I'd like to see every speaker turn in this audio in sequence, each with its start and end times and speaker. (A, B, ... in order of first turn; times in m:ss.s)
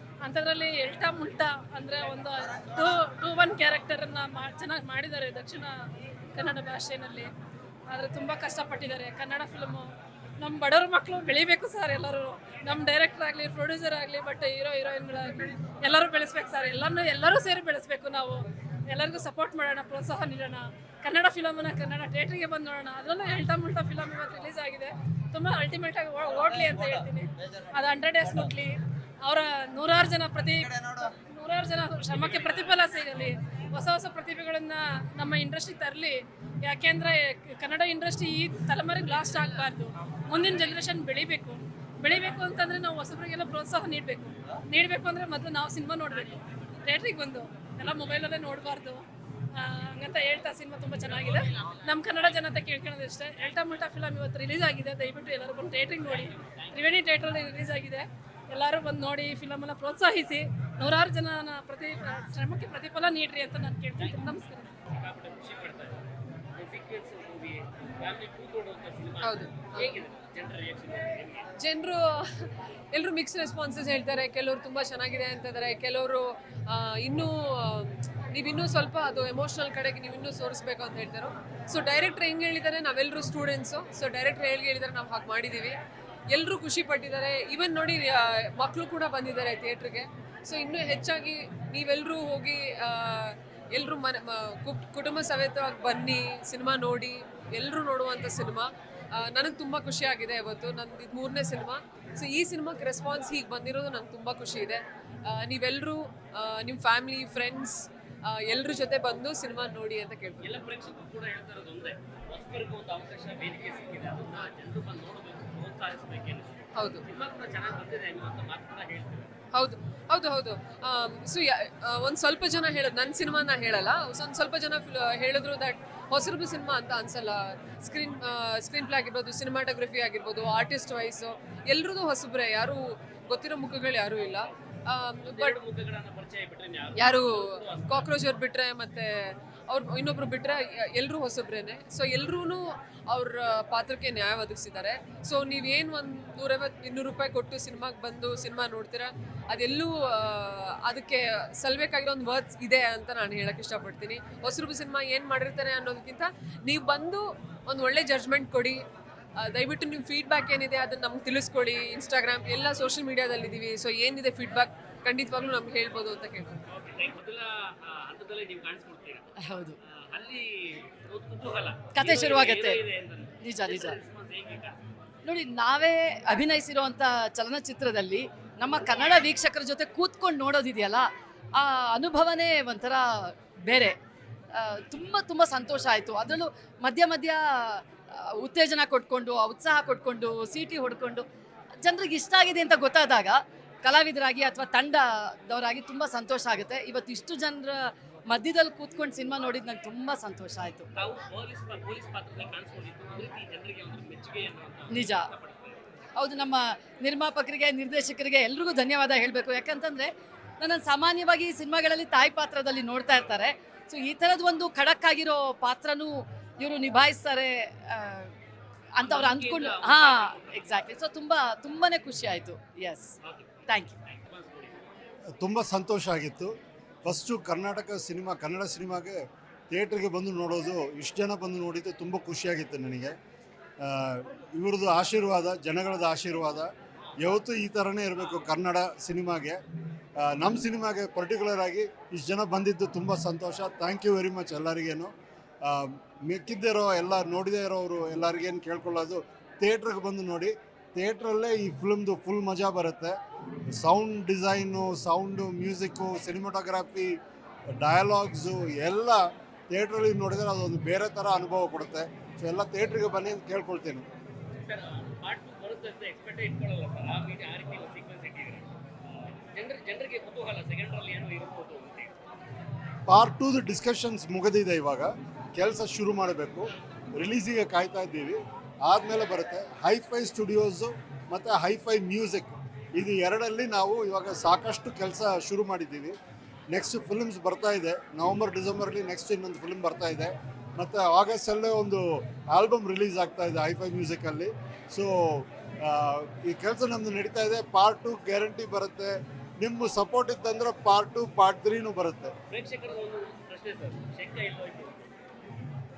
0:00.2-0:05.8 A
0:06.3-0:07.3 A
0:07.9-1:04.7 A
0:32.3-0:32.7 B
0:56.0-0:56.9 B
1:04.0-1:04.3 B
1:04.9-1:06.0 B
1:06.6-1:11.5 B
1:11.6-1:25.8 C
1:26.3-1:50.4 C
1:50.4-1:59.3 B
1:59.5-2:15.6 C
2:15.2-2:18.2 B
2:17.0-2:38.8 C
2:39.4-2:46.5 C
2:46.7-2:49.2 B
2:49.4-2:49.8 D
2:49.8-2:54.8 B
2:52.0-2:52.8 D
2:53.4-2:54.0 D
2:55.2-3:04.0 D
3:04.5-3:11.2 D
3:11.8-3:20.9 D
3:20.9-3:25.8 B
3:24.9-3:25.3 D
3:26.2-3:38.3 D
3:39.0-3:43.1 D
3:39.0-3:40.9 B
3:43.2-3:44.8 B
3:43.7-3:43.9 D
3:45.4-3:53.2 E
3:53.8-3:59.6 E
3:57.0-3:57.4 B
4:00.2-4:05.1 E
4:05.6-4:13.1 E
4:13.8-4:17.1 E
4:17.8-4:24.1 E
4:24.6-4:28.7 B
4:29.5-4:32.1 B
4:33.1-4:46.1 E
4:46.7-5:02.3 E
5:02.5-5:05.1 B